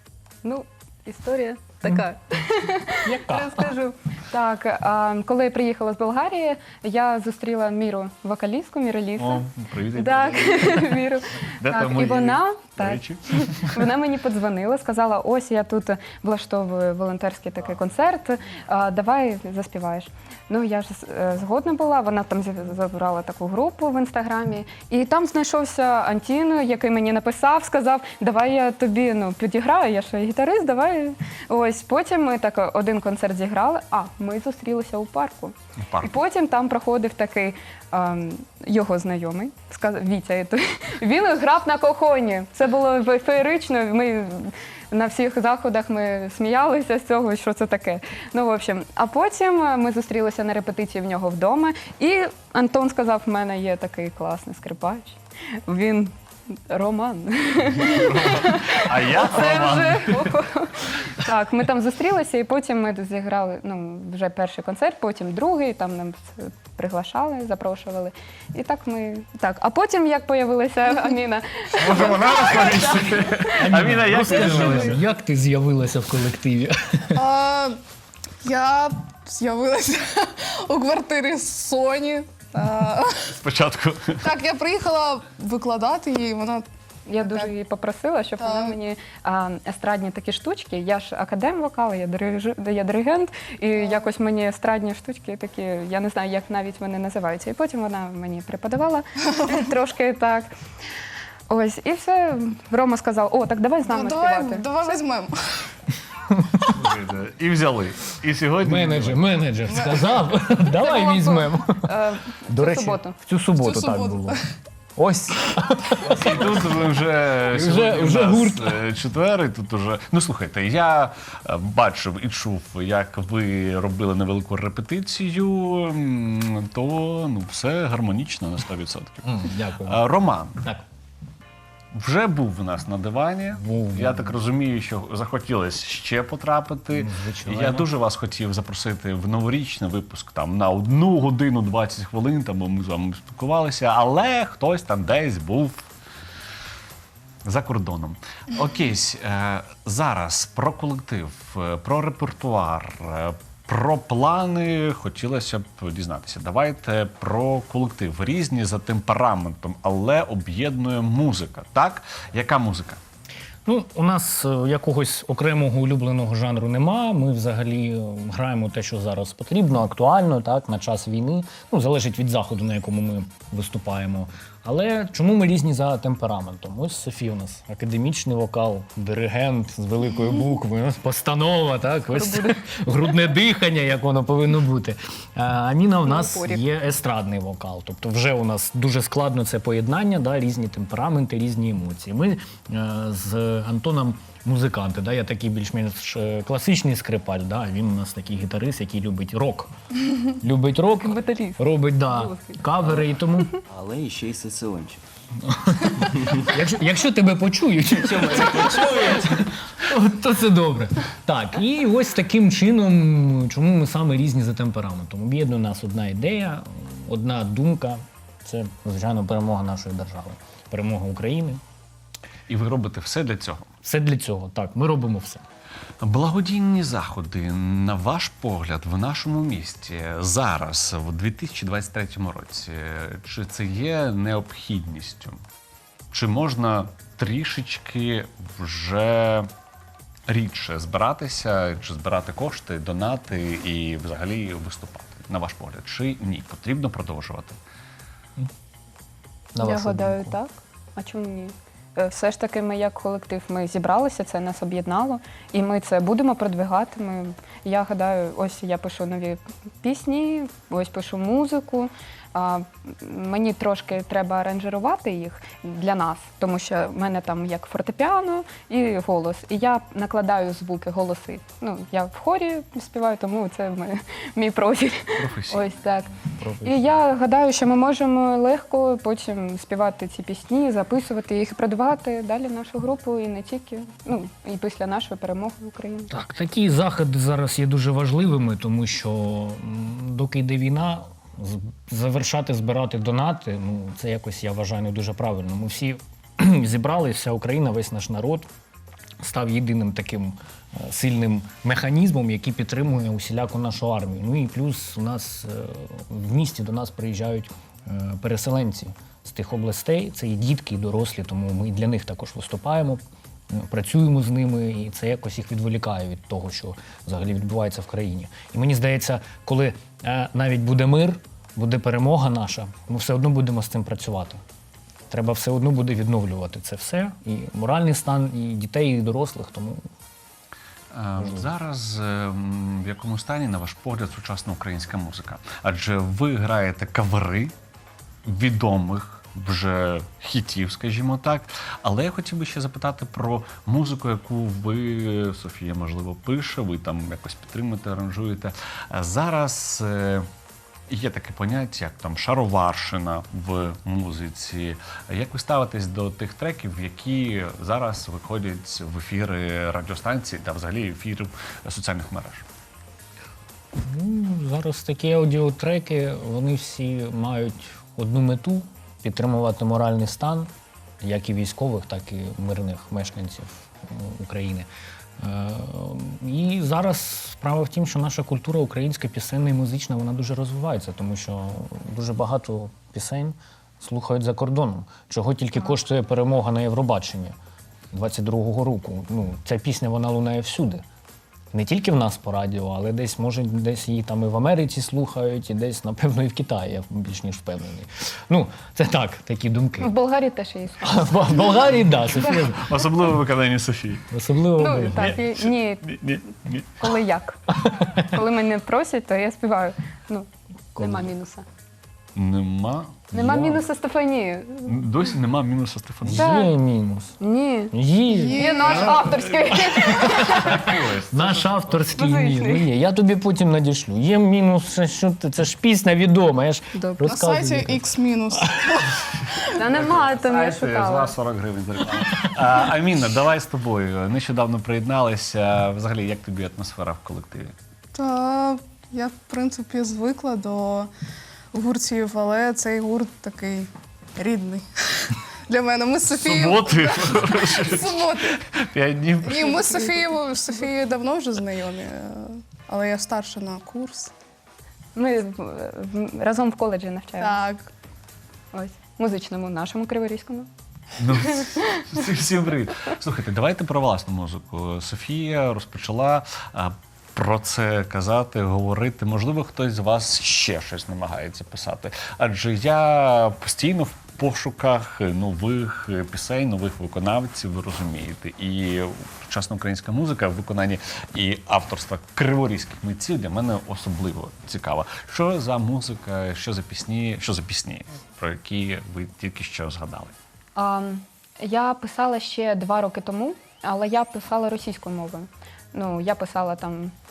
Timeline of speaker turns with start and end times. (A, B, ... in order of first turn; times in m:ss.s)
0:00.4-0:56.1 A
0:03.0-0:03.7 B
0:09.2-0:11.0 C
0:11.6-0:13.9 C
0:35.8-0:36.2 C
0:56.7-1:13.6 A
0:57.6-1:00.4 C
1:11.8-1:15.0 C
1:13.6-1:17.2 B
1:14.3-1:14.9 D
1:17.1-1:17.8 D
1:18.4-1:23.4 D
1:23.3-1:24.2 C
1:24.2-1:26.6 D
1:27.1-1:40.5 A
1:27.2-1:27.5 D
1:28.4-1:28.8 D
1:41.5-1:44.7 A
1:43.8-1:45.7 D
1:46.6-1:49.2 C
1:48.6-1:51.9 B
1:49.7-1:50.1 D
1:50.8-1:53.1 A
1:52.5-1:54.4 B
1:53.6-1:54.4 D
1:55.0-1:56.8 B
1:56.0-2:10.6 C
1:57.4-1:58.8 B
2:09.2-2:10.8 B
2:11.9-2:25.8 C
2:13.6-2:14.4 B
2:16.9-2:17.9 B
2:27.4-2:43.0 C
2:43.6-3:19.7 B
3:02.1-3:02.6 A
3:06.0-3:06.6 A
3:20.3-3:23.5 B
3:21.0-3:22.6 A
3:23.7-3:25.0 E
3:25.4-3:41.6 B
3:28.0-3:29.3 E
3:42.5-3:43.7 C
3:43.8-3:45.4 B
3:46.0-3:55.4 C
3:56.1-3:59.5 C
4:00.3-4:07.6 C
4:09.5-4:10.4 B
4:09.6-4:36.1 A
4:35.2-4:35.6 C
4:36.4-4:37.0 B
4:36.6-4:46.1 A
4:46.1-4:58.5 B
4:59.2-5:24.4 B
5:25.1-5:29.8 B
5:30.9-5:37.5 C
5:31.2-5:31.5 B
5:38.2-5:50.2 C
5:50.9-6:02.4 C
6:03.8-6:27.4 B
6:27.9-6:30.8 B
6:31.5-6:39.9 B
6:39.8-6:41.5 A
6:40.8-6:42.7 B
6:42.4-6:44.1 C
6:44.1-6:45.2 B
6:44.6-6:45.9 A
6:45.0-6:47.0 C
6:46.8-6:47.4 A
6:48.0-6:51.4 A
6:50.8-6:51.1 B
6:52.2-6:53.5 C
6:53.1-6:53.6 B
6:53.2-6:54.8 A
6:54.6-6:56.3 C
6:56.0-6:57.2 B
6:56.1-6:56.5 A
6:57.2-6:57.7 A
6:57.7-6:58.5 B
6:58.1-6:59.0 D
6:58.4-7:00.7 A
6:58.7-7:01.9 C
7:01.1-7:08.8 B
7:01.9-7:02.6 A
7:06.8-7:07.1 A
7:07.0-7:09.4 D
7:09.6-7:11.1 A
7:09.6-7:17.5 C
7:17.9-7:20.9 D
7:21.5-7:28.4 D
7:26.1-7:29.7 C
7:29.2-7:34.1 D
7:35.0-7:37.4 A
7:37.2-7:37.7 D
7:38.5-7:40.5 A
7:41.0-8:10.1 C
7:41.3-7:41.7 A
8:10.6-8:16.9 A